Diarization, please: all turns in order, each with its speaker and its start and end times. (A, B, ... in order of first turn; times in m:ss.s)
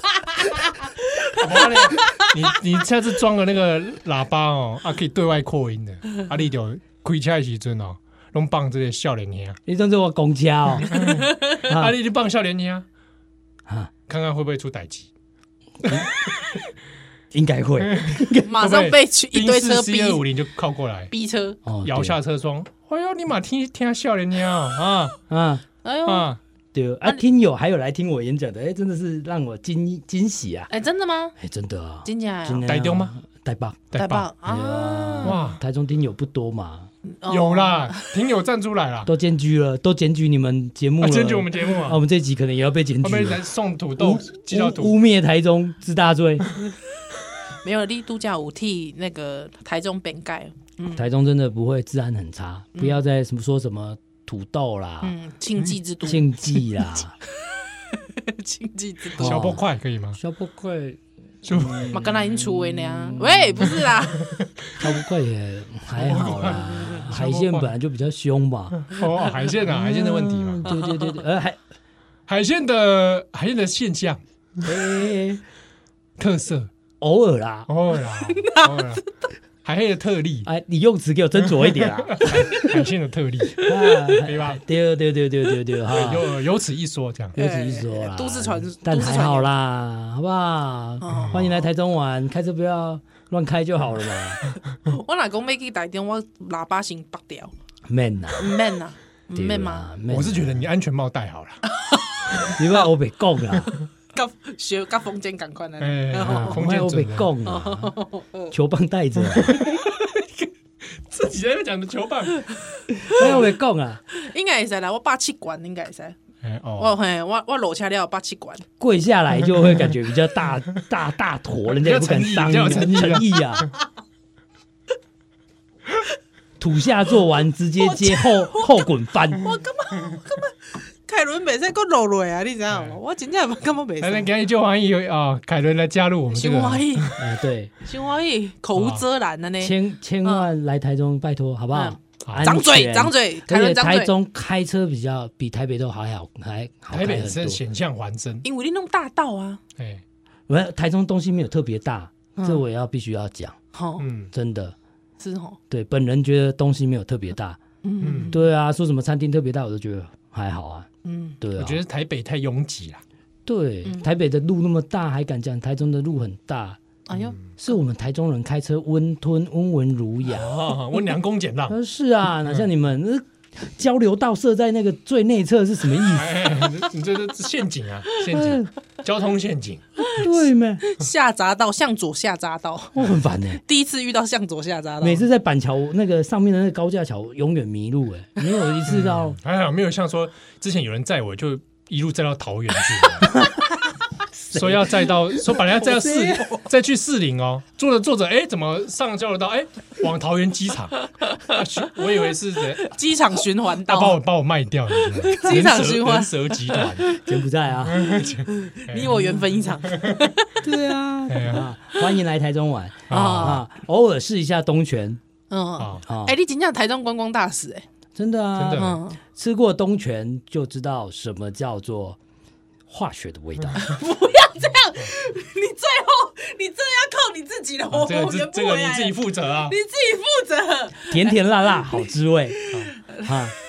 0:01.4-0:09.6 A
0:09.7-0:10.9 B
0:10.9-0:12.8 A
0:11.0-0:11.4 C
0:11.7-0:11.9 B
0:13.7-0:13.9 B
0:14.1-0:15.1 A
0:17.3-0:18.5 B
0:17.8-0:21.1 A
0:18.4-0:20.2 C
0:21.1-0:21.6 C
0:21.6-0:22.2 B
0:21.8-0:25.1 A
0:24.8-0:25.6 B
0:25.8-0:26.3 C
0:26.0-0:26.4 A
0:26.7-0:30.7 B
0:30.7-0:31.4 C
0:31.4-0:33.9 B
0:32.0-0:32.6 C
0:32.6-0:33.1 A
0:33.9-0:34.3 A
0:34.0-0:35.4 C
0:34.4-0:36.9 B
0:35.2-0:35.6 A
0:37.1-0:38.1 C
0:37.3-0:39.1 A
0:39.0-0:43.4 B
0:41.0-0:42.0 A
0:43.0-0:44.9 A
0:44.0-0:46.5 B
0:47.6-0:51.0 C
0:50.9-0:55.1 B
0:52.7-0:53.0 C
0:55.0-0:56.6 C
0:56.0-0:57.1 B
0:57.9-0:59.4 C
0:59.2-1:00.2 A
0:59.2-0:59.6 B
1:00.1-1:03.8 B
1:01.4-1:02.0 A
1:01.9-1:04.3 C
1:04.2-1:04.5 A
1:04.8-1:08.9 B
1:06.0-1:07.7 A
1:08.8-1:10.7 A
1:09.6-1:11.6 B
1:10.7-1:11.1 C
1:12.3-1:14.2 A
1:14.6-1:15.4 B
1:16.2-1:16.7 A
1:17.0-1:17.7 B
1:17.7-1:19.0 A
1:19.6-1:20.5 A
1:20.4-1:22.7 B
1:21.7-1:24.6 A
1:23.6-1:26.3 B
1:25.9-1:27.4 A
1:27.4-1:29.5 C
1:27.4-1:34.4 B
1:31.0-1:31.6 C
1:31.1-1:31.4 A
1:34.8-1:37.5 C
1:37.8-1:38.5 B
1:38.4-1:39.8 C
1:39.3-1:40.6 B
1:40.1-1:41.6 A
1:41.8-1:42.8 C
1:42.5-1:43.7 B
1:44.1-1:46.6 C
1:45.8-1:47.3 A
1:46.2-1:47.9 B
1:47.4-1:48.5 C
1:48.5-1:49.6 B
1:49.4-1:50.2 A
1:51.0-1:52.5 A
1:53.1-1:54.0 B
1:53.2-1:53.4 A
1:54.1-1:56.2 C
1:56.4-1:57.0 A
1:56.8-1:58.6 C
1:58.8-2:03.7 B
2:01.8-2:03.3 A
2:06.6-2:09.4 B
2:07.8-2:14.3 C
2:14.0-2:17.2 A
2:16.3-2:17.1 C
2:17.2-2:17.7 B
2:17.8-2:20.5 C
2:18.7-2:19.0 A
2:19.6-2:27.6 B
2:21.7-2:24.1 C
2:22.2-2:22.5 A
2:26.9-2:28.4 A
2:28.4-2:29.6 C
2:30.5-2:33.6 B
2:32.4-2:32.6 C
2:33.7-2:34.0 C
2:34.0-2:34.3 A
2:34.3-2:34.7 B
2:35.2-2:35.6 C
2:35.7-2:37.6 B
2:37.8-2:38.4 C
2:38.0-2:38.3 A
2:38.3-2:40.9 B
2:41.0-2:41.4 C
2:41.4-2:41.8 B
2:41.5-2:43.0 A
2:43.4-2:46.8 B
2:47.1-2:47.4 C
2:47.5-2:50.5 B
2:50.3-2:51.8 A
2:51.7-2:56.5 B
2:56.1-3:00.1 A
2:58.3-2:58.7 B
3:00.2-3:00.8 B
3:00.8-3:03.0 C
3:02.9-3:03.6 B
3:03.6-3:05.2 C
3:05.0-3:09.4 B
3:08.8-3:13.4 A
3:14.5-3:15.1 B
3:14.5-3:22.9 A
3:15.8-3:16.4 B
3:21.2-3:21.6 C
3:22.8-3:24.2 C
3:23.9-3:27.1 A
3:25.1-3:27.2 C
3:27.2-3:28.1 B
3:27.8-3:29.3 A
3:28.5-3:30.6 C
3:30.6-3:35.2 B
3:31.3-3:31.6 A
3:33.1-3:33.6 A
3:33.1-3:33.6 C
3:35.5-3:37.8 C
3:36.0-3:36.3 B
3:38.1-3:42.2 B
3:38.6-3:39.0 A
3:38.7-3:39.2 C
3:42.9-3:43.8 B
3:43.8-3:53.3 C
3:47.9-3:49.7 A
3:51.1-3:52.6 B
3:53.2-3:53.5 B